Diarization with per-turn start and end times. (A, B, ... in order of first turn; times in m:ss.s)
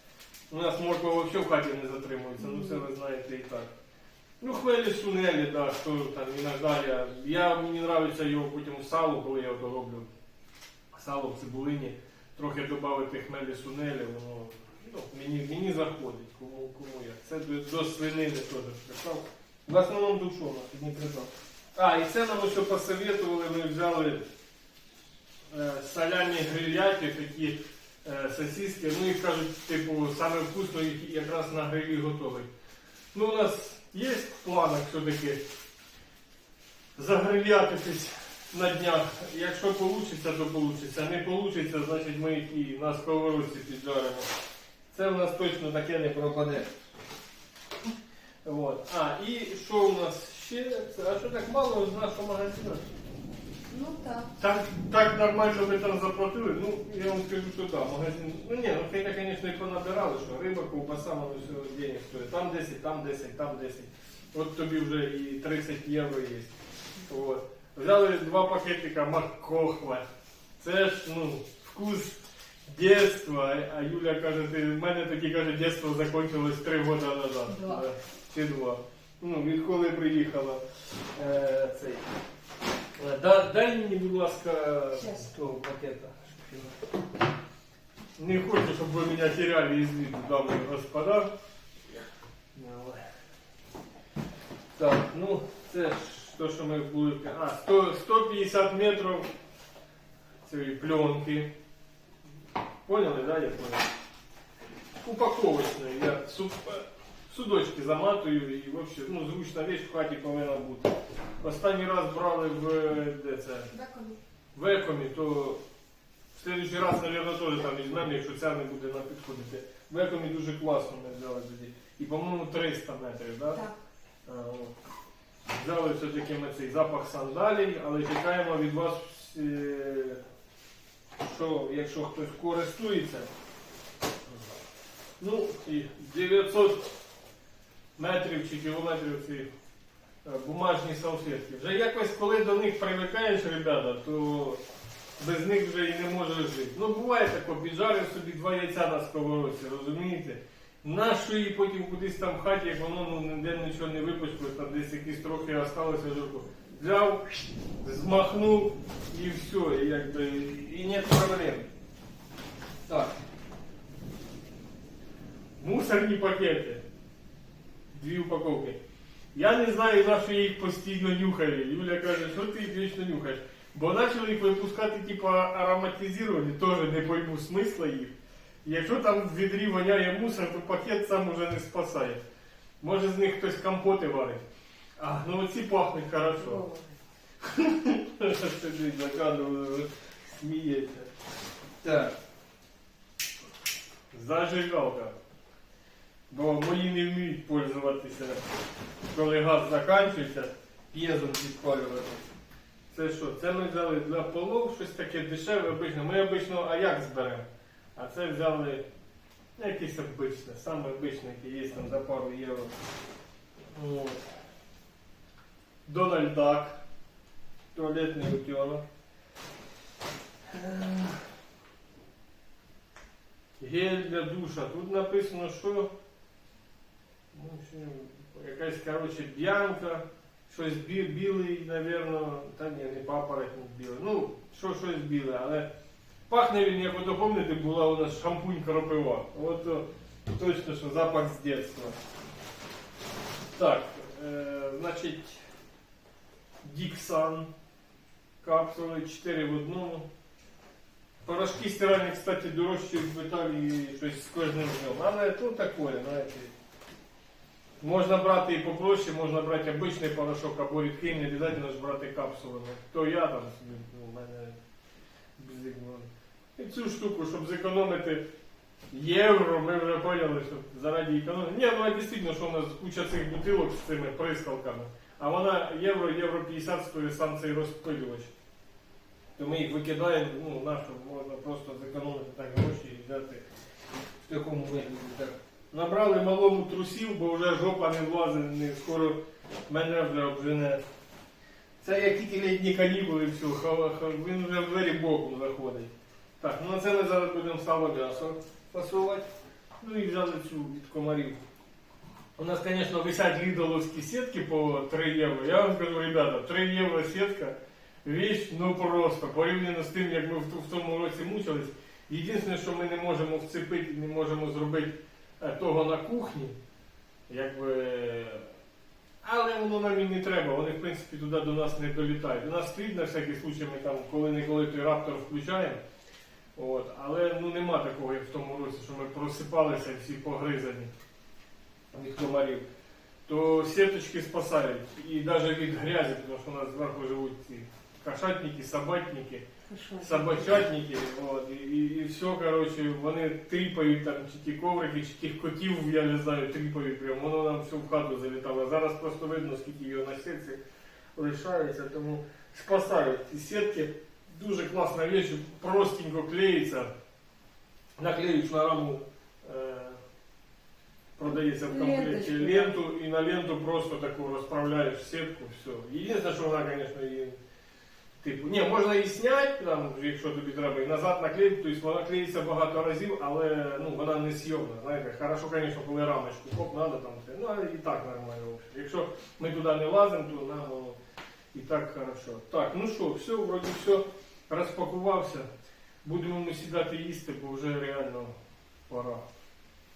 0:00.5-0:03.7 A
0:04.4-0:10.1 A
0:10.9-0:24.2 A
0:25.5-0:32.5 A
0:33.1-0:35.4 A
0:37.0-0:44.3 A
0:44.9-0:46.7 A
0:48.4-0:52.8 A
0:53.7-0:54.3 B
0:54.4-1:06.5 A
1:07.1-1:10.0 A
1:10.6-1:20.6 A
1:17.5-1:17.8 B
1:21.1-1:22.0 A
1:23.0-1:26.8 A
1:25.0-1:25.3 B
1:28.2-1:31.3 A
1:32.5-1:33.0 A
1:34.8-1:39.3 A
1:40.4-1:41.5 A
1:42.8-1:43.9 A
1:45.0-1:53.7 A
1:53.7-1:54.2 B
1:54.5-1:55.6 A
1:56.3-2:03.6 A
2:04.2-2:04.7 A
2:05.5-2:10.2 A
2:11.2-2:13.3 A
2:15.2-2:16.9 A
2:18.0-2:19.5 A
2:20.2-2:24.6 A
2:25.2-2:41.7 A
2:42.9-2:43.1 A
2:45.6-2:46.8 A
2:47.9-2:48.8 A
2:49.3-3:02.2 A
3:02.8-3:04.4 A
3:05.0-3:06.6 A
3:06.4-3:07.0 B
3:07.4-3:11.1 A
3:11.8-3:12.1 A
3:14.1-3:15.2 A
3:16.3-3:18.5 A
3:19.1-3:22.2 A
3:22.9-3:28.8 A
3:29.6-3:32.7 A
3:33.6-3:34.2 A
3:35.8-3:36.8 A
3:37.7-3:38.8 A
3:40.5-3:41.2 A
3:43.6-3:45.9 A
3:47.3-3:55.7 A
3:56.3-4:02.0 A
4:03.5-4:05.4 A
4:06.6-4:07.5 A
4:08.4-4:10.1 A
4:11.2-4:16.5 A
4:17.8-4:24.6 A
4:25.4-4:28.2 A
4:28.9-4:38.3 A
4:39.4-4:43.4 A
4:44.2-4:50.8 A
4:51.8-4:59.3 A
4:59.8-5:01.4 A
5:02.4-5:16.6 A
5:17.3-5:18.5 A
5:19.2-5:25.8 A
5:26.6-5:30.9 A
5:31.9-5:32.6 A
5:33.3-5:39.4 A
5:39.7-5:40.5 B
5:40.0-5:50.6 A
5:51.2-5:56.9 A
5:58.0-6:00.0 A
6:01.2-6:07.4 A
6:01.5-6:02.8 B
6:08.2-6:21.0 A
6:21.5-6:25.5 A
6:26.0-6:28.3 A
6:28.9-6:29.2 A